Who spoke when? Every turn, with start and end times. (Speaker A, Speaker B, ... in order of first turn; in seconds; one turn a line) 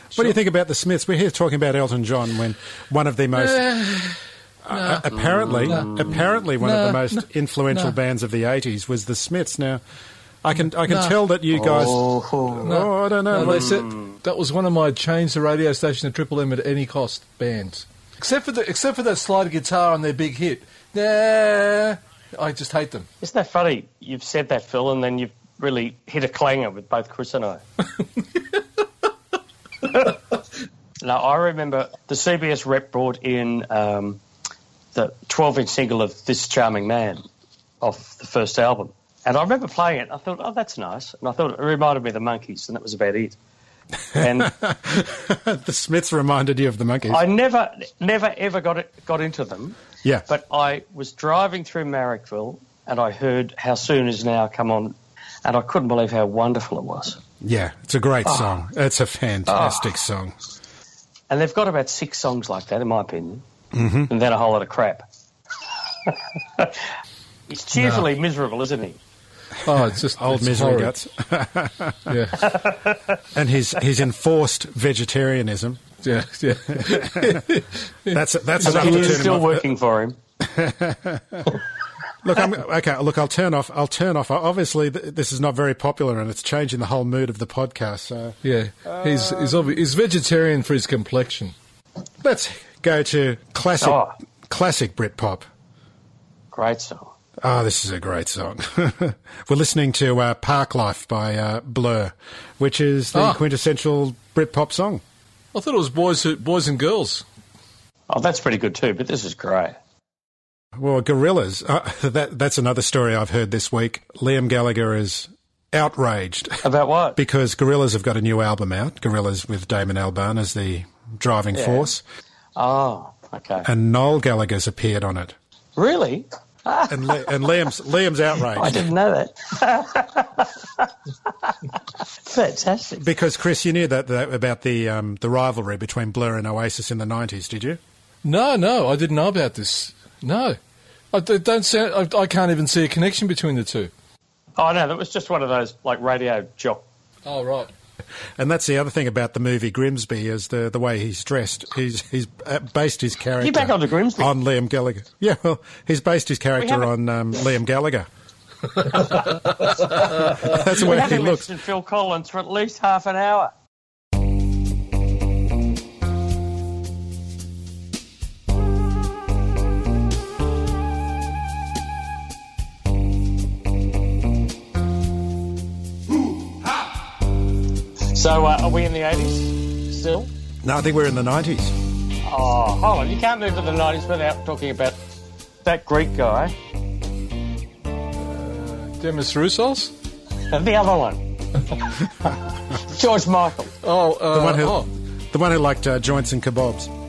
Speaker A: 0.1-3.7
Speaker B: 3.3-4.2
Speaker A: 4.7-9.8
Speaker B: 4.7-5.1
Speaker C: 5.1-6.3
Speaker B: 5.7-8.0
Speaker A: 10.4-13.8
Speaker B: 10.8-11.2
Speaker C: 11.5-12.7
Speaker B: 12.6-23.1
Speaker C: 13.3-14.1
Speaker C: 23.2-27.6
Speaker B: 28.0-28.4
Speaker C: 31.0-34.2
Speaker C: 34.9-37.2
Speaker C: 37.8-43.4
Speaker C: 44.1-44.5
Speaker A: 44.2-47.2
Speaker C: 47.1-49.8
Speaker C: 50.3-57.2
Speaker A: 57.4-60.3
Speaker C: 58.2-58.6
Speaker C: 59.5-60.0
Speaker C: 61.3-63.4
Speaker A: 63.7-64.1
Speaker C: 64.1-65.0
Speaker C: 66.0-66.8
Speaker C: 67.5-69.0
Speaker B: 67.8-68.1
Speaker B: 69.6-70.9
Speaker A: 70.2-72.2
Speaker B: 72.1-72.5
Speaker C: 72.5-73.0
Speaker A: 73.3-75.8
Speaker B: 76.0-79.4
Speaker A: 76.8-77.4
Speaker A: 78.1-79.7
Speaker C: 78.6-80.2
Speaker A: 80.4-81.6
Speaker A: 82.2-89.7
Speaker B: 88.4-91.5
Speaker A: 92.2-95.5
Speaker C: 93.8-94.1
Speaker C: 96.5-97.1
Speaker A: 97.4-105.0
Speaker B: 103.1-103.4
Speaker B: 105.5-107.2
Speaker C: 108.1-109.8
Speaker A: 110.8-116.6
Speaker C: 116.6-117.2
Speaker A: 117.2-122.0
Speaker C: 121.5-121.9
Speaker C: 122.6-123.7
Speaker A: 123.6-125.3
Speaker C: 125.8-127.3
Speaker A: 126.9-128.9
Speaker C: 128.5-131.7
Speaker C: 132.2-133.0
Speaker A: 133.0-137.8
Speaker B: 138.2-140.6
Speaker B: 141.1-143.9
Speaker C: 144.6-146.8
Speaker B: 147.2-147.7
Speaker A: 148.4-158.1
Speaker C: 153.4-154.3
Speaker C: 156.6-156.9
Speaker A: 158.9-161.5
Speaker B: 160.1-160.4
Speaker C: 160.4-163.5
Speaker C: 178.1-180.3
Speaker A: 180.6-181.7
Speaker C: 182.2-185.0
Speaker C: 185.6-186.6
Speaker B: 188.2-189.9
Speaker C: 190.5-191.4
Speaker C: 192.7-193.7
Speaker B: 193.8-194.9
Speaker A: 194.3-196.9